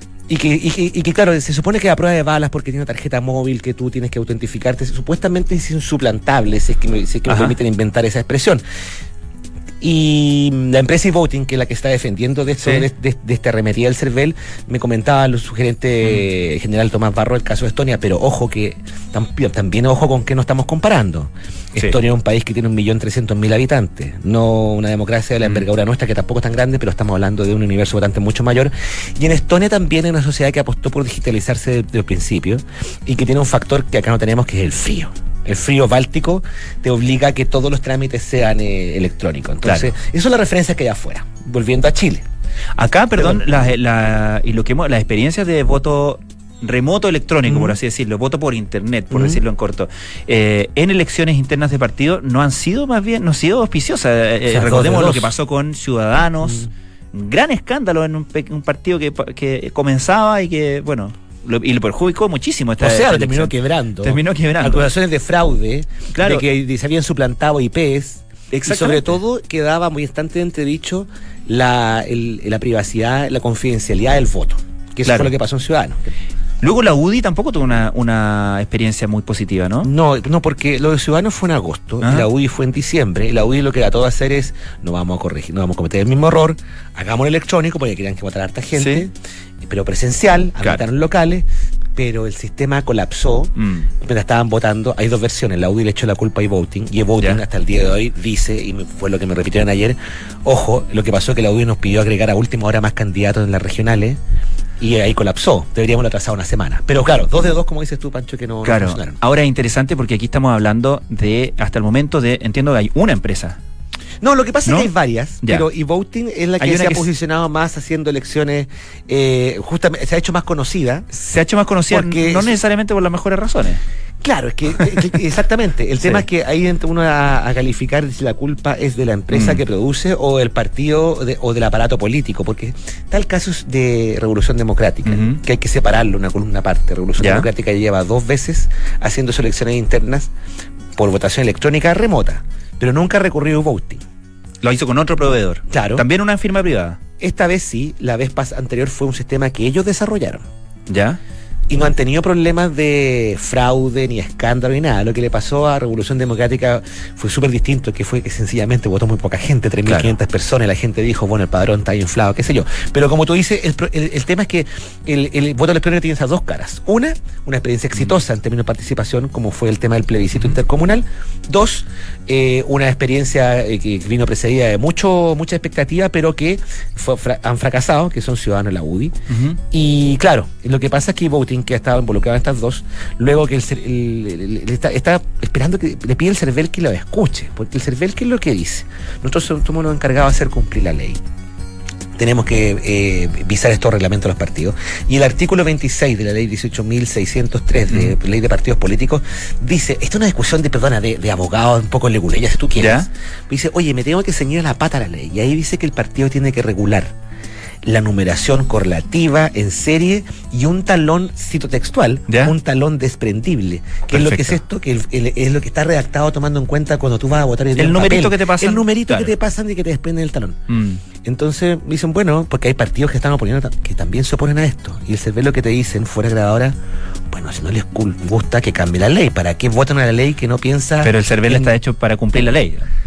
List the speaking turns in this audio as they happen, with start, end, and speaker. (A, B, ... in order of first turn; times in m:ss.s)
0:00.3-0:08.6 A
0:07.3-0:07.5 B
0:09.8-0:42.2 A
0:12.6-0:12.9 B
0:39.6-0:39.9 B
0:42.8-1:04.9 B
0:47.5-0:47.8 A
0:49.1-0:49.4 A
0:54.5-0:55.3 A
1:02.8-1:16.1 A
1:06.1-1:06.4 B
1:08.5-1:09.2 B
1:15.0-1:15.3 B
1:16.6-1:19.9 B
1:19.8-1:44.2 A
1:22.0-1:22.3 B
1:28.8-1:29.1 B
1:33.6-1:33.9 B
1:44.8-1:49.2 A
1:48.6-1:53.6 B
1:54.2-2:01.1 A
1:56.6-1:57.0 B
2:01.1-2:03.8 B
2:01.9-2:02.6 A
2:04.2-2:20.3 A
2:06.0-2:06.2 B
2:09.3-2:09.6 B
2:15.0-2:15.4 B
2:17.2-2:17.5 B
2:21.0-2:24.0 A
2:24.6-2:27.0 B
2:25.7-2:26.0 A
2:27.2-2:30.4 A
2:30.9-2:31.2 B
2:31.7-2:59.2 A
2:39.8-2:40.1 B
2:59.3-2:59.6 B
2:59.7-3:11.2 A
3:12.2-3:27.1 A
3:22.8-3:23.1 B
3:27.8-3:40.6 A
3:32.3-3:32.5 B
3:34.1-3:34.6 B
3:37.8-3:39.3 B
3:40.7-3:41.0 B
3:41.2-3:46.7 A
3:47.3-3:51.7 A
3:51.0-3:52.9 B